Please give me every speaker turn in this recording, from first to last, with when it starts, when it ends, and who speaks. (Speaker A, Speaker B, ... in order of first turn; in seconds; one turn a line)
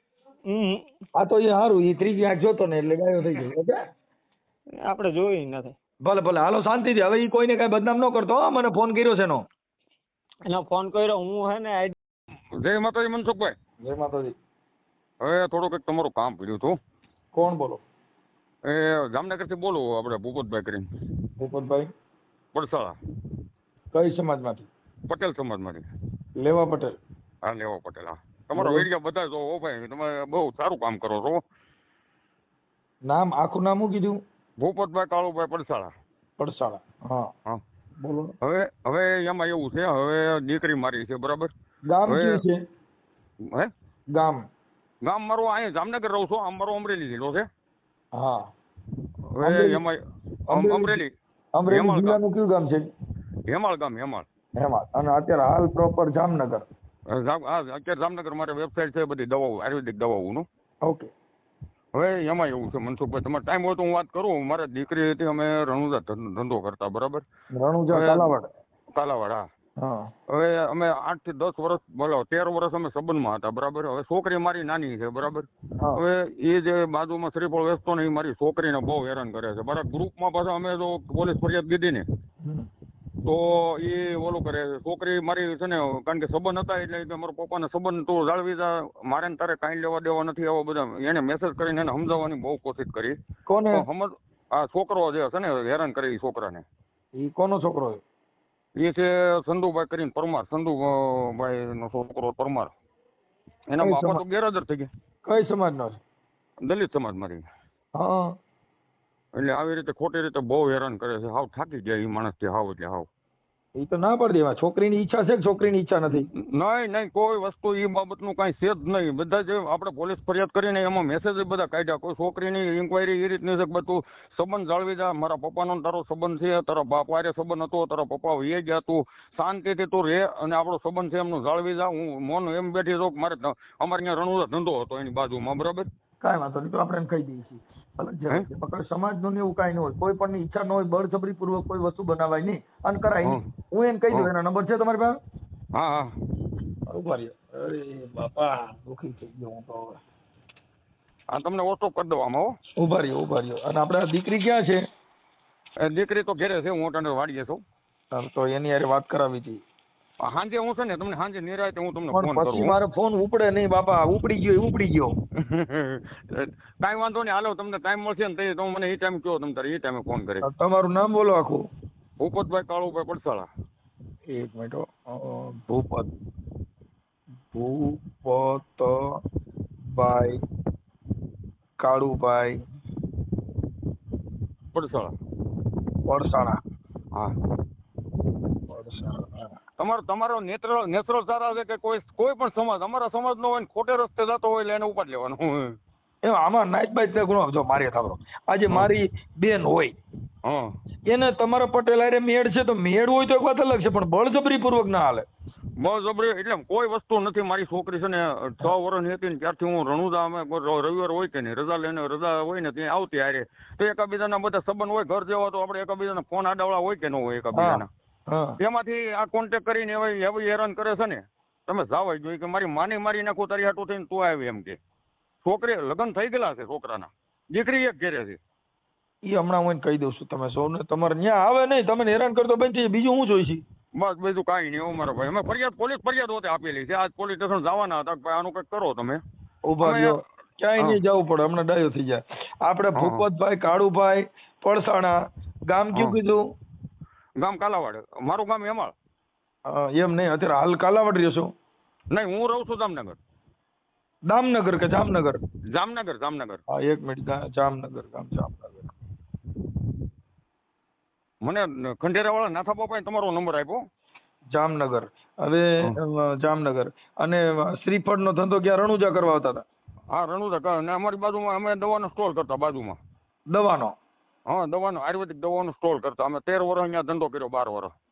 Speaker A: 0.5-0.8
Speaker B: 1.2-3.8
Speaker A: 4.8-5.8
Speaker B: 6.0-9.4
Speaker A: 10.4-11.9
Speaker C: 12.6-13.5
Speaker B: 13.8-14.3
Speaker C: 15.2-16.8
Speaker B: 17.3-17.8
Speaker C: 18.6-20.9
Speaker B: 21.4-21.9
Speaker C: 22.5-23.0
Speaker B: 23.9-24.7
Speaker C: 25.1-25.9
Speaker B: 26.4-26.9
Speaker C: 27.4-31.4
Speaker B: 28.5-28.9
Speaker B: 33.1-34.2
Speaker C: 34.6-35.9
Speaker B: 36.4-37.3
Speaker B: 38.0-38.3
Speaker C: 38.4-41.5
Speaker B: 41.9-42.6
Speaker C: 42.1-42.4
Speaker C: 43.4-43.7
Speaker B: 44.1-44.5
Speaker C: 45.0-47.5
Speaker B: 48.1-48.5
Speaker C: 49.3-51.1
Speaker B: 49.4-49.8
Speaker B: 50.5-51.0
Speaker B: 51.5-52.9
Speaker C: 51.7-52.2
Speaker C: 53.5-54.2
Speaker B: 54.6-56.7
Speaker C: 57.1-60.5
Speaker B: 60.8-61.1
Speaker C: 61.9-67.2
Speaker B: 67.5-68.5
Speaker C: 67.9-68.3
Speaker C: 68.9-69.4
Speaker B: 69.8-70.1
Speaker C: 70.3-82.0
Speaker B: 75.8-76.0
Speaker B: 82.4-82.7
Speaker C: 83.2-93.2
Speaker B: 93.5-93.8
Speaker C: 93.7-96.6
Speaker B: 97.2-98.0
Speaker C: 98.8-102.7
Speaker C: 103.7-104.9
Speaker B: 103.8-104.2
Speaker B: 105.2-106.0
Speaker C: 106.6-107.4
Speaker B: 108.0-108.3
Speaker C: 109.3-113.1
Speaker B: 113.8-116.3
Speaker C: 116.2-135.9
Speaker B: 136.2-145.2
Speaker C: 145.7-146.1
Speaker B: 146.9-150.0
Speaker C: 151.3-152.5
Speaker B: 152.8-154.8
Speaker C: 155.8-157.6
Speaker B: 158.1-159.6
Speaker C: 160.2-162.8
Speaker B: 162.1-165.1
Speaker C: 165.4-170.5
Speaker B: 170.4-171.7
Speaker C: 172.2-173.5
Speaker B: 174.3-176.1
Speaker B: 177.5-179.2
Speaker B: 179.9-180.4
Speaker B: 181.8-182.6
Speaker C: 184.7-185.1
Speaker B: 186.1-186.6
Speaker B: 188.7-189.6
Speaker C: 189.8-195.8
Speaker B: 196.2-199.9
Speaker C: 200.4-200.7
Speaker B: 201.1-205.2
Speaker C: 205.8-217.9
Speaker B: 217.5-218.6
Speaker C: 218.6-224.8
Speaker C: 225.4-228.4
Speaker B: 229.2-233.6
Speaker C: 233.9-239.2
Speaker B: 239.7-245.2
Speaker C: 239.8-240.2
Speaker C: 242.9-243.2
Speaker B: 245.7-246.4
Speaker C: 245.9-246.2
Speaker C: 247.4-248.9
Speaker B: 249.7-251.5
Speaker C: 252.1-253.2
Speaker B: 254.3-255.4
Speaker C: 255.7-256.6
Speaker B: 256.7-258.9
Speaker C: 261.4-263.8
Speaker B: 264.5-269.6
Speaker C: 270.1-273.0
Speaker B: 273.5-273.9
Speaker C: 274.5-277.9